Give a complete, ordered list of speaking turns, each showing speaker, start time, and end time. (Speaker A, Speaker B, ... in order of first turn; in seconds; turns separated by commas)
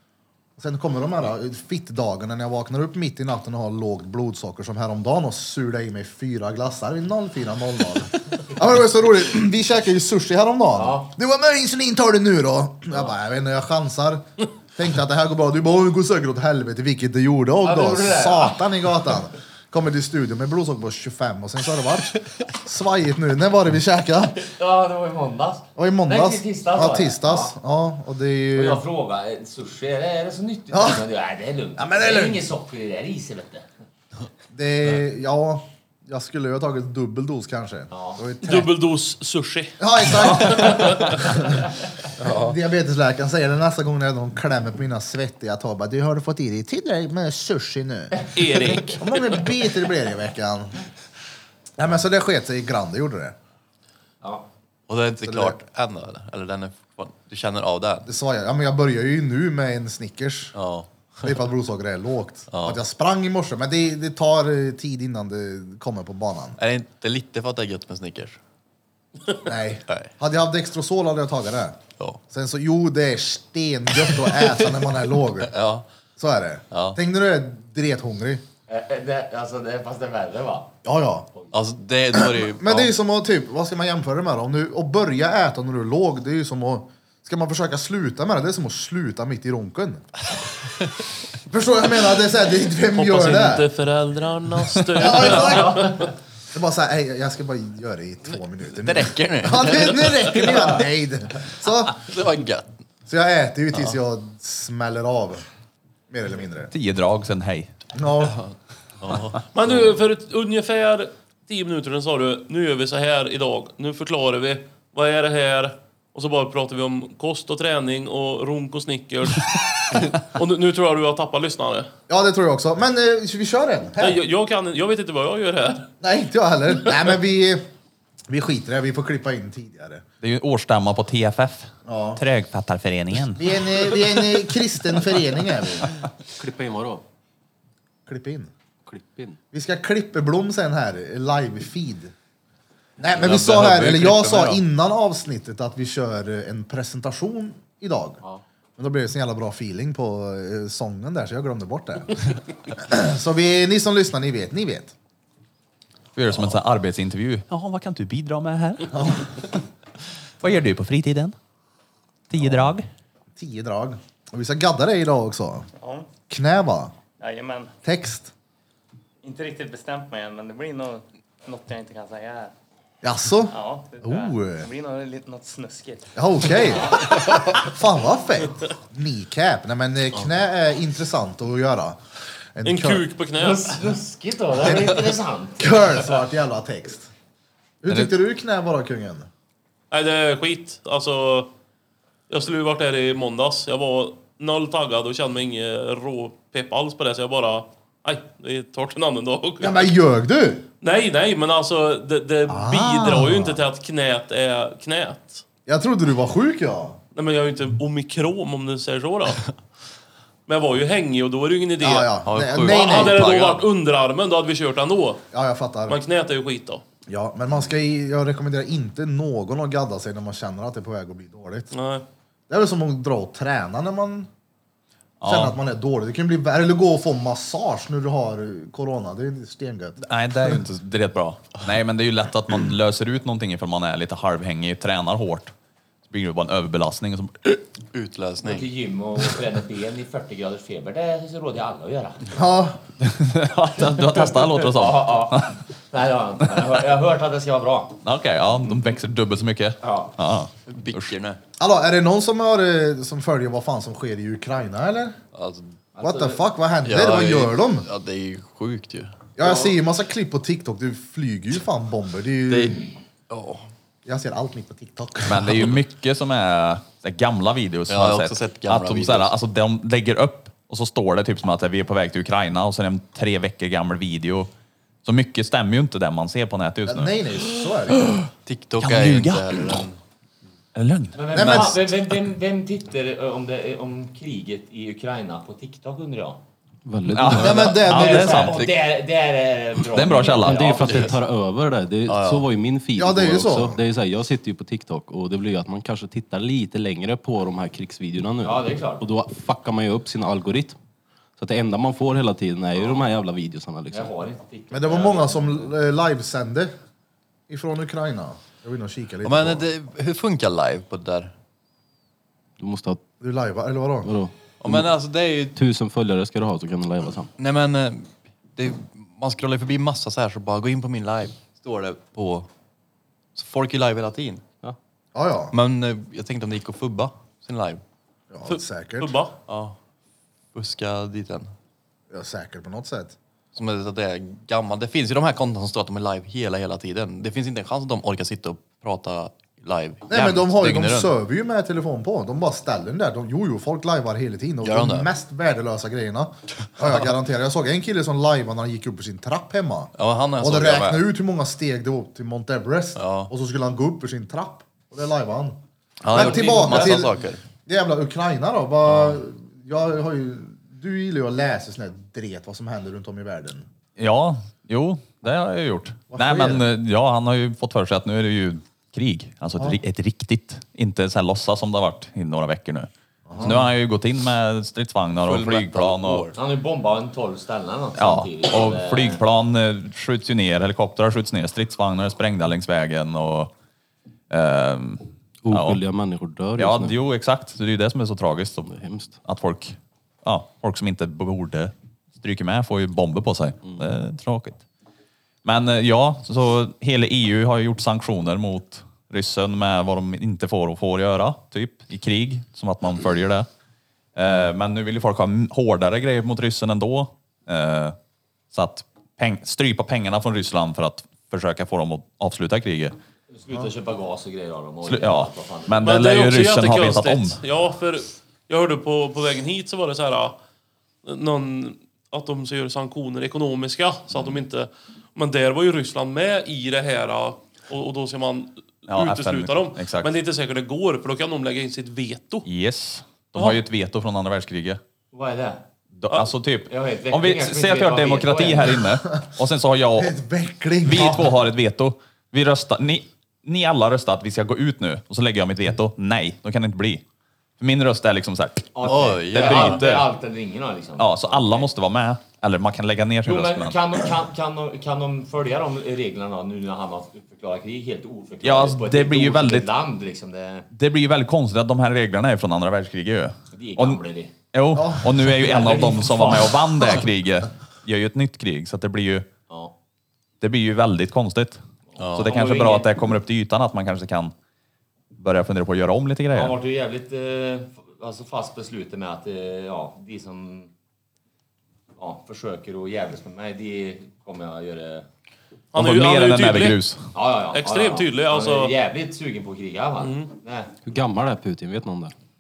Speaker A: 0.6-24.3, Speaker B: 10.7-11.1, Speaker B: 17.6-18.6, Speaker B: 24.4-27.6, Speaker A: 25.8-28.8, Speaker B: 28.5-33.6, Speaker A: 30.7-31.0, Speaker A: 31.8-32.4, Speaker A: 34.5-38.7, Speaker B: 37.9-38.2, Speaker C: 38.4-41.1, Speaker A: 39.8-41.6, Speaker D: 42.2-42.5, Speaker A: 42.2-48.1, Speaker C: 48.3-49.5, Speaker A: 49.0-50.8, Speaker A: 51.8-53.3, Speaker B: 54.2-54.5, Speaker D: 54.9-58.1, Speaker A: 55.2-55.5, Speaker A: 58.0-60.5, Speaker D: 60.5-61.3, Speaker A: 61.2-66.6, Speaker D: 62.5-62.8, Speaker D: 66.6-68.4, Speaker A: 69.4-71.8, Speaker A: 72.3-75.5, Speaker D: 74.0-74.8, Speaker D: 75.4-75.8, Speaker A: 76.2-78.4, Speaker D: 76.7-77.0, Speaker B: 78.7-80.7, Speaker A: 80.8-81.3, Speaker D: 81.5-82.9, Speaker A: 82.1-90.0, Speaker A: 91.5-93.7, Speaker C: 92.9-96.1, Speaker A: 94.9-102.0, Speaker D: 98.7-100.8, Speaker D: 102.0-102.7, Speaker A: 103.1-105.5, Speaker A: 106.1-106.7, Speaker E: 106.7-107.7, Speaker A: 107.9-108.4, Speaker D: 108.2-109.8, Speaker C: 109.5-121.9, Speaker A: 122.1-124.2, Speaker C: 124.0-125.9, Speaker A: 126.0-127.6, Speaker A: 128.3-130.0, Speaker E: 130.2-133.4, Speaker A: 131.8-132.2, Speaker A: 133.3-135.9, Speaker F: 136.3-137.0, Speaker A: 138.1-138.5, Speaker F: 138.8-139.4, Speaker A: 139.5-142.1, Speaker A: 143.0-148.2, Speaker D: 143.1-144.6, Speaker A: 148.8-154.9, Speaker E: 156.2-159.6, Speaker A: 158.9-159.3, Speaker E: 160.4-161.3, Speaker E: 162.3-162.9, Speaker A: 162.4-162.7, Speaker A: 163.3-165.7, Speaker G: 165.8-166.1, Speaker A: 166.3-166.9, Speaker G: 167.2-167.7, Speaker A: 167.8-168.3, Speaker G: 169.2-172.5, Speaker A: 173.0-174.7, Speaker G: 173.5-176.7, Speaker A: 176.1-182.0, Speaker A: 182.5-183.1, Speaker C: 182.6-183.8, Speaker B: 183.4-185.8, Speaker A: 185.6-187.1, Speaker A: 187.8-189.3, Speaker C: 189.9-191.5, Speaker C: 192.3-199.9, Speaker A: 199.6-200.6, Speaker C: 200.8-205.4, Speaker A: 202.5-203.6, Speaker A: 205.7-207.0, Speaker C: 207.1-209.4, Speaker C: 210.5-215.2, Speaker A: 211.8-213.3, Speaker D: 212.2-213.6, Speaker A: 215.3-216.0, Speaker C: 215.9-216.8, Speaker A: 217.1-221.7, Speaker C: 221.7-222.0, Speaker A: 222.5-224.3, Speaker E: 225.2-225.6, Speaker A: 225.2-230.0, Speaker E: 230.0-235.5, Speaker E: 236.1-237.6, Speaker D: 237.9-238.7, Speaker B: 238.4-242.3, Speaker A: 242.3-242.8, Speaker E: 243.0-245.6, Speaker B: 244.0-248.0, Speaker E: 248.0-251.2, Speaker B: 249.8-250.1, Speaker D: 250.7-251.4, Speaker A: 251.6-255.2, Speaker D: 255.3-255.7, Speaker B: 255.9-256.4, Speaker A: 256.0-257.9, Speaker D: 256.8-259.1, Speaker A: 259.4-262.8, Speaker B: 259.4-259.7, Speaker D: 262.5-263.7, Speaker A: 264.1-265.7, Speaker E: 265.2-274.5, Speaker D: 267.9-269.3, Speaker E: 275.0-277.1, Speaker A: 276.9-278.1, Speaker E: 277.9-278.3, Speaker D: 278.4-280.0, Speaker E: 278.8-279.8, Speaker E: 280.7-281.6, Speaker B: 281.1-286.4, Speaker A: 281.3-281.8, Speaker D: 281.3-281.9, Speaker F: 286.9-287.7, Speaker E: 287.1-288.6, Speaker A: 287.4-288.6, Speaker D: 287.4-288.7, Speaker B: 287.8-291.1, Speaker E: 289.9-290.8, Speaker F: 290.4-300.8, Speaker D: 290.8-291.2, Speaker D: 292.1-292.5, Speaker A: 293.0-293.8, Speaker B: 298.4-299.0, Speaker F: 301.4-304.1, Speaker B: 303.9-305.7, Speaker A: 304.7-306.7, Speaker A: 307.5-309.7, Speaker D: 309.2-311.3, Speaker F: 312.6-313.0, Speaker A: 313.2-314.1, Speaker F: 314.0-314.9, Speaker D: 314.6-315.6, Speaker F: 315.5-317.3, Speaker D: 317.4-322.5, Speaker D: 323.3-324.4, Speaker A: 325.1-325.6, Speaker D: 325.5-327.8, Speaker A: 328.3-329.2, Speaker C: 328.5-329.3, Speaker D: 329.5-329.8, Speaker D: 330.5-331.5, Speaker A: 332.1-333.1, Speaker D: 333.5-341.1, Speaker A: 340.1-355.6, Speaker D: 344.6-345.1, Speaker D: 350.0-351.0, Speaker D: 352.9-353.3, Speaker D: 356.0-357.4, Speaker A: 356.1-363.7, Speaker B: 356.1-357.1, Speaker D: 358.9-359.2, Speaker E: 364.0-376.3, Speaker A: 366.1-366.7, Speaker A: 373.3-373.7, Speaker D: 375.2-376.4, Speaker B: 376.3-379.2, Speaker E: 378.0-383.5, Speaker E: 384.3-385.8, Speaker F: 385.4-387.0, Speaker E: 386.6-388.7, Speaker F: 388.6-389.2, Speaker E: 389.2-394.6, Speaker E: 395.4-403.5, Speaker E: 404.1-407.9, Speaker E: 408.5-412.9, Speaker B: 413.3-415.9, Speaker E: 414.9-417.4, Speaker C: 415.8-420.4, Speaker C: 421.0-432.4, Speaker E: 428.9-430.1, Speaker E: 432.4-434.8, Speaker C: 433.3-433.6, Speaker B: 435.1-435.6, Speaker E: 435.9-440.1, Speaker B: 436.7-438.8, Speaker A: 440.0-441.2, Speaker E: 440.8-447.0, Speaker E: 447.6-448.7, Speaker B: 448.7-451.7, Speaker D: 448.8-449.9, Speaker E: 449.3-450.1, Speaker E: 451.0-453.8, Speaker B: 453.2-460.7, Speaker E: 458.4-459.7, Speaker E: 460.7-464.0, Speaker B: 463.5-464.3, Speaker E: 464.5-469.2, Speaker A: 464.7-465.3, Speaker B: 465.3-466.9, Speaker B: 469.5-469.7, Speaker E: 470.4-471.6, Speaker B: 471.9-472.9, Speaker D: 472.0-472.4, Speaker E: 472.1-474.3, Speaker E: 475.1-476.5, Speaker B: 476.3-480.7, Speaker B: 482.0-485.1, Speaker C: 485.7-486.8, Speaker E: 485.7-487.1, Speaker B: 487.1-490.7, Speaker C: 487.5-488.7, Speaker C: 490.0-490.3, Speaker F: 490.8-492.1